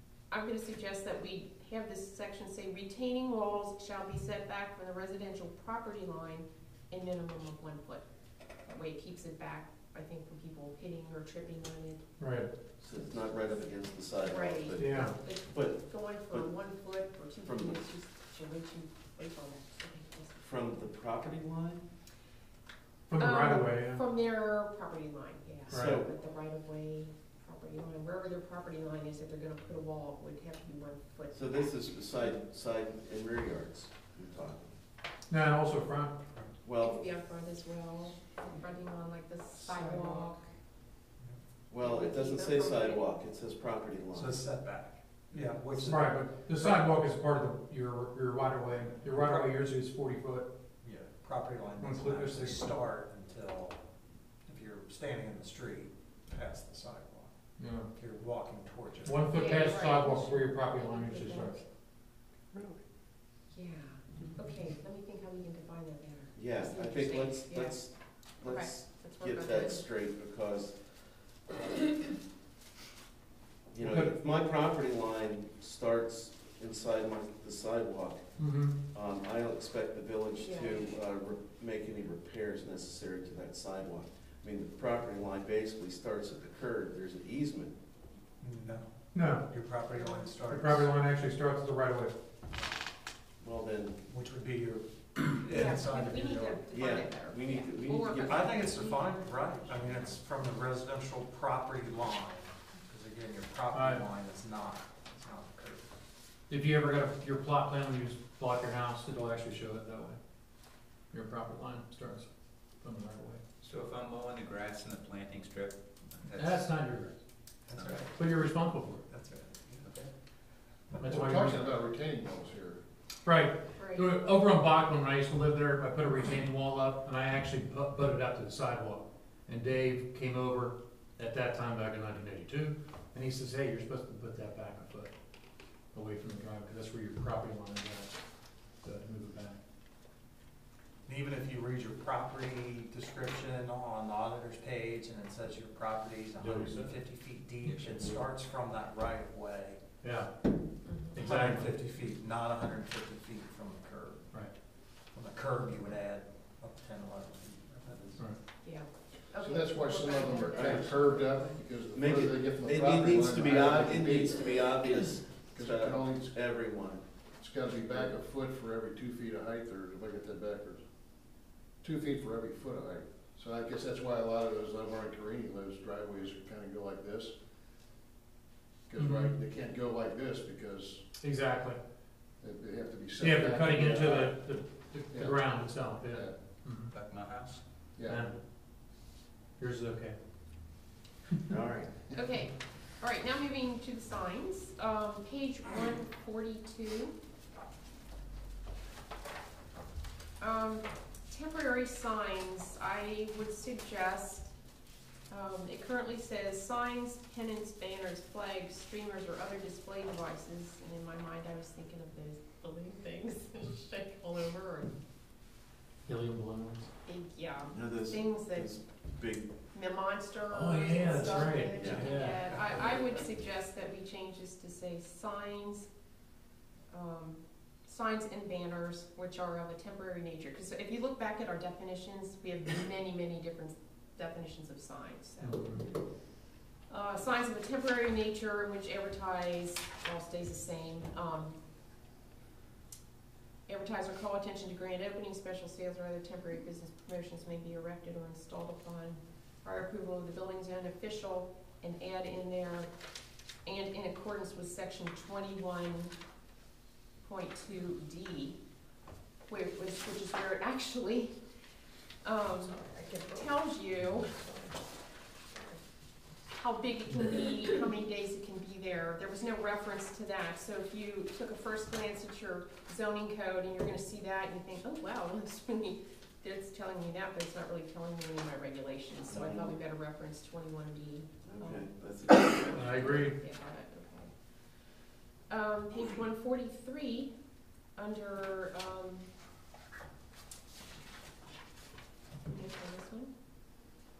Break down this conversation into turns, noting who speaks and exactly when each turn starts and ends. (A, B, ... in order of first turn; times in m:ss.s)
0:00.3-0:08.0 A
0:08.6-0:12.0 A
0:12.2-0:12.5 B
0:12.8-0:16.5 C
0:14.3-0:20.4 A
0:14.8-0:15.2 B
0:17.4-0:17.8 C
0:20.4-0:21.8 C
0:23.1-0:24.0 B
0:23.2-0:31.7 A
0:25.7-0:26.1 C
0:31.3-0:34.8 C
0:35.3-0:36.2 B
0:36.6-0:37.1 C
0:36.8-0:40.4 A
0:39.6-0:40.3 D
0:41.7-0:44.4 C
0:41.8-0:43.1 A
0:44.1-0:46.9 D
0:45.8-0:50.5 B
0:49.2-0:49.5 D
0:50.8-0:53.8 D
0:51.8-0:52.7 B
0:54.5-0:57.3 D
0:57.6-0:57.9 B
0:58.0-0:59.8 D
0:59.0-1:01.6 B
0:59.3-1:01.6 A
1:03.5-1:07.8 A
1:06.4-1:10.8 C
1:08.4-1:09.8 A
1:13.7-1:18.2 C
1:13.8-1:14.1 B
1:18.4-1:18.7 B
1:18.9-1:27.7 C
1:20.4-1:20.8 A
1:28.4-1:31.0 D
1:29.1-1:29.5 B
1:29.9-1:30.3 A
1:30.5-1:32.2 B
1:33.4-1:34.0 C
1:34.1-1:36.6 D
1:35.5-1:40.2 A
1:36.7-1:38.7 C
1:38.2-1:45.8 D
1:43.7-1:44.0 B
1:46.5-1:50.2 B
1:51.1-1:52.3 B
1:52.8-1:53.4 B
1:53.6-1:56.7 E
1:56.4-1:57.1 B
1:57.7-1:58.3 D
1:57.7-1:58.1 E
1:58.1-1:59.0 B
1:59.1-1:59.8 D
1:59.8-2:00.1 E
2:01.0-2:01.6 B
2:01.0-2:02.8 F
2:03.2-2:15.1 B
2:03.8-2:04.1 A
2:15.9-2:18.2 B
2:18.8-2:19.6 B
2:21.1-2:29.8 D
2:26.4-2:27.0 B
2:27.6-2:28.2 B
2:30.0-2:30.3 B
2:30.8-2:31.2 A
2:31.1-2:31.7 B
2:31.2-2:34.4 D
2:35.1-2:38.2 D
2:38.6-2:41.6 A
2:39.4-2:44.4 F
2:41.9-2:47.0 C
2:45.5-2:46.4 F
2:47.4-2:50.8 F
2:51.8-2:57.4 F
2:58.9-3:01.0 F
2:59.0-2:59.4 B
3:01.2-3:01.8 B
3:02.4-3:04.4 F
3:03.2-3:06.9 B
3:05.1-3:05.4 F
3:06.9-3:07.6 E
3:08.0-3:08.3 F
3:08.1-3:08.4 B
3:09.6-3:10.2 B
3:11.5-3:11.9 C
3:12.1-3:17.2 A
3:20.4-3:24.5 A
3:25.3-3:34.9 A
3:36.1-3:36.9 B
3:37.1-3:38.7 A
3:37.7-3:39.5 C
3:39.7-3:45.9 A
3:40.5-3:42.4 B
3:41.7-3:42.9 C
3:46.9-3:55.9 A
3:55.4-3:55.9 B
3:56.9-4:01.5 A
4:03.7-4:12.9 A
4:13.6-4:16.1 A
4:17.2-4:18.6 A
4:19.5-4:21.4 A
4:22.2-4:24.7 A
4:26.5-4:41.9 A
4:39.3-4:39.7 C
4:41.4-4:43.0 C
4:42.6-4:44.3 A
4:42.8-4:43.4 B
4:45.5-4:47.3 A
4:48.0-4:49.3 A
4:52.4-4:53.3 A